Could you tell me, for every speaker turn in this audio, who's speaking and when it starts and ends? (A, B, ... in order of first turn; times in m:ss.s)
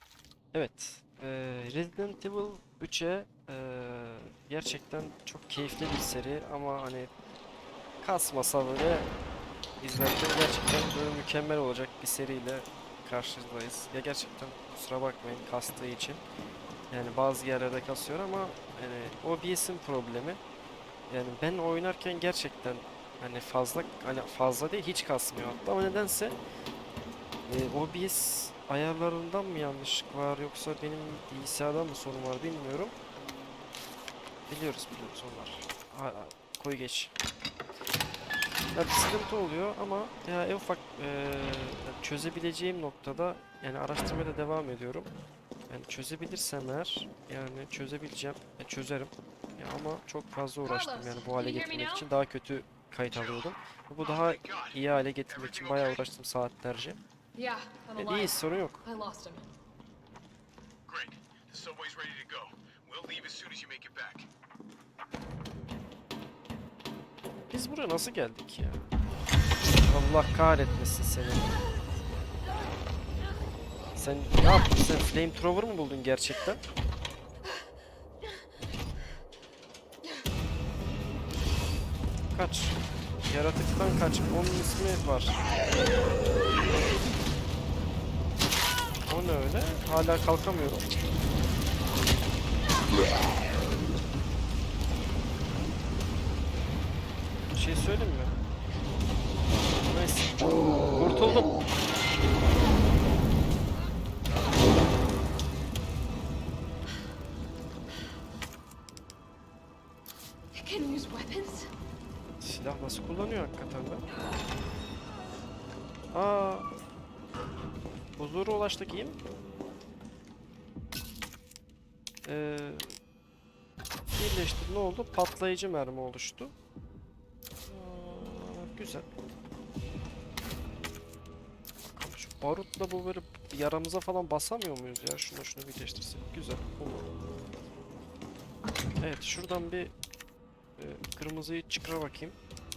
0:00.5-0:07.1 A
0:08.0-0:09.1 A
0:09.8-0:16.2 A
0:16.9-0:20.4 A
0:21.1-0:26.4 A
0:27.5-0:33.0 A
0:34.5-0:37.1 A
0:38.7-0:45.1 A
0:45.7-0:57.0 A
0:50.6-0:52.1 B
0:53.1-0:53.5 C
0:54.0-0:54.8 C
0:55.3-0:56.0 C
0:57.4-0:59.4 B
0:58.0-0:58.8 A
1:00.9-1:04.3 C
1:07.5-1:08.9 A
1:09.8-1:11.6 A
1:14.0-1:16.6 A
1:22.3-1:25.4 A
1:29.1-1:30.9 A
1:37.5-1:38.3 A
1:39.8-1:41.5 A
1:50.6-1:51.7 B
1:52.4-1:54.0 A
1:56.1-1:56.7 A
1:58.2-1:59.2 A
2:02.2-2:03.0 A
2:04.1-2:06.5 A
2:07.7-2:09.1 A
2:11.9-2:17.1 A
2:19.0-2:19.9 A
2:20.8-2:22.4 A